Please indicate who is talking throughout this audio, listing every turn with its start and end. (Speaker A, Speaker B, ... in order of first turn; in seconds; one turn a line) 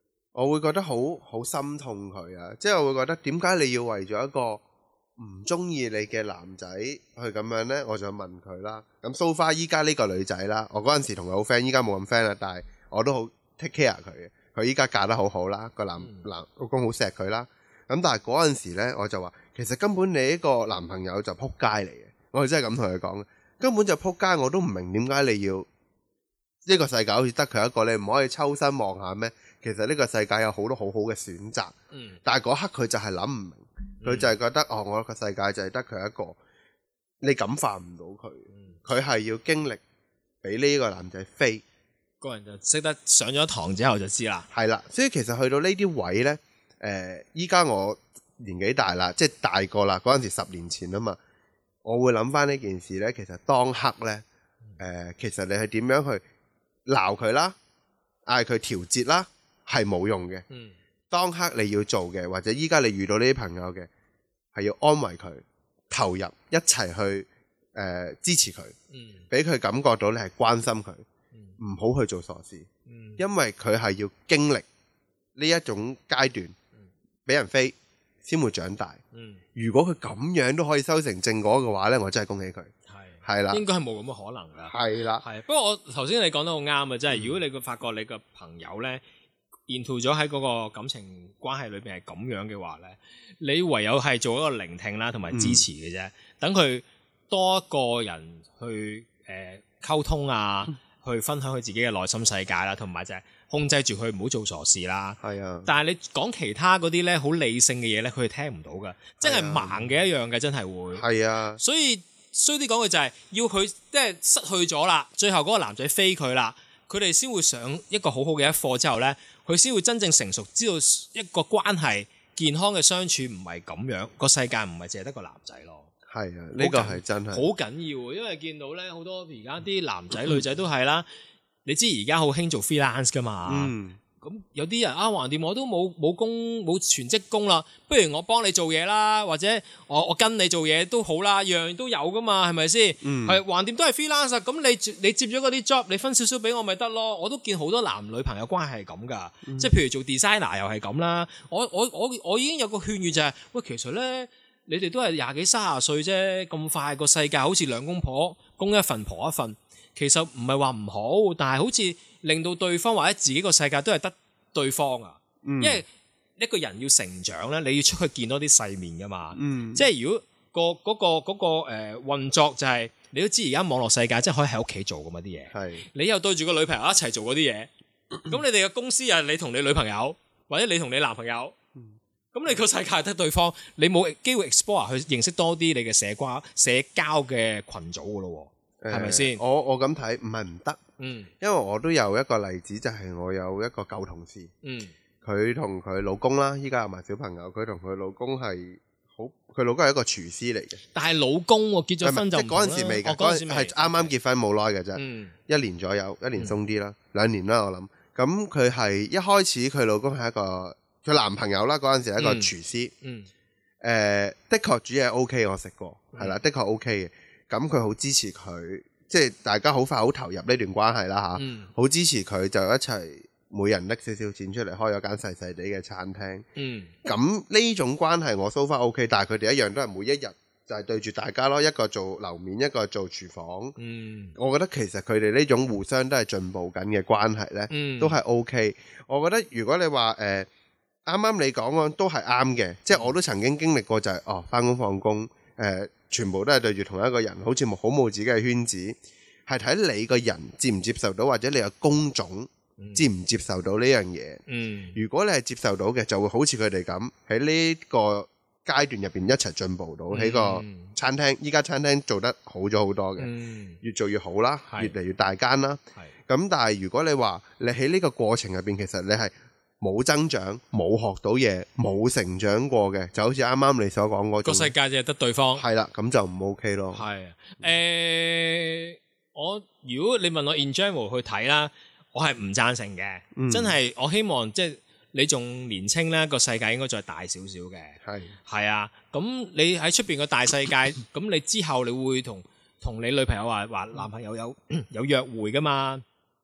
Speaker A: 0.3-4.6
Speaker A: 5.2-25.7
Speaker B: 16.0-16.3
Speaker A: 26.6-31.7
Speaker B: 31.9-32.2
Speaker A: 32.2-36.4
Speaker B: 34.0-34.3
Speaker A: 37.2-39.8
Speaker B: 38.5-38.8
Speaker A: 40.4-41.6
Speaker B: 42.2-44.5
Speaker A: 44.5-51.2
Speaker A: 51.8-54.2
Speaker A: 54.8-56.2
Speaker A: 56.9-57.5
Speaker A: 58.3-60.4
Speaker B: 60.5-60.7
Speaker A: 61.1-63.9
Speaker A: 64.5-68.7
Speaker B: 68.9-69.2
Speaker A: 69.3-71.0
Speaker A: 71.6-72.7
Speaker B: 72.8-73.2
Speaker A: 73.2-74.7
Speaker A: 75.3-76.5
Speaker A: 77.2-79.0
Speaker B: 79.1-79.4
Speaker A: 79.5-82.7
Speaker B: 82.9-89.0
Speaker A: 83.2-83.6
Speaker A: 84.7-85.2
Speaker A: 87.1-87.4
Speaker B: 89.7-111.0
Speaker A: 95.3-95.6
Speaker A: 105.2-105.7
Speaker A: 109.2-109.9
Speaker A: 110.9-111.6
Speaker B: 111.6-125.9
Speaker A: 126.1-127.5
Speaker B: 126.6-131.1
Speaker B: 131.6-177.7
Speaker A: 133.5-134.0
Speaker A: 143.0-143.4
Speaker A: 149.4-149.7
Speaker A: 165.4-165.8
Speaker A: 169.3-169.9
Speaker A: 175.5-175.8
Speaker B: 178.2-181.5
Speaker B: 182.3-189.4
Speaker A: 188.8-190.8
Speaker B: 191.0-191.3
Speaker A: 191.4-194.5
Speaker B: 194.6-194.9
Speaker A: 195.2-200.8
Speaker B: 200.9-204.1
Speaker A: 202.0-212.9
Speaker B: 204.9-205.3
Speaker B: 212.2-213.3
Speaker A: 213.8-226.4
Speaker B: 216.1-216.4
Speaker B: 221.3-221.7
Speaker B: 226.6-226.9
Speaker A: 227.0-233.7
Speaker B: 233.8-234.3
Speaker A: 234.3-240.5
Speaker B: 237.7-238.2
Speaker A: 241.1-254.4
Speaker B: 252.8-253.1
Speaker B: 254.5-255.0
Speaker A: 254.9-263.3
Speaker B: 260.1-260.9
Speaker B: 263.2-263.8
Speaker A: 263.8-274.7
Speaker B: 264.7-264.9
Speaker B: 274.4-275.6
Speaker A: 275.6-277.0
Speaker B: 276.9-296.0
Speaker A: 283.4-283.8
Speaker A: 288.0-288.3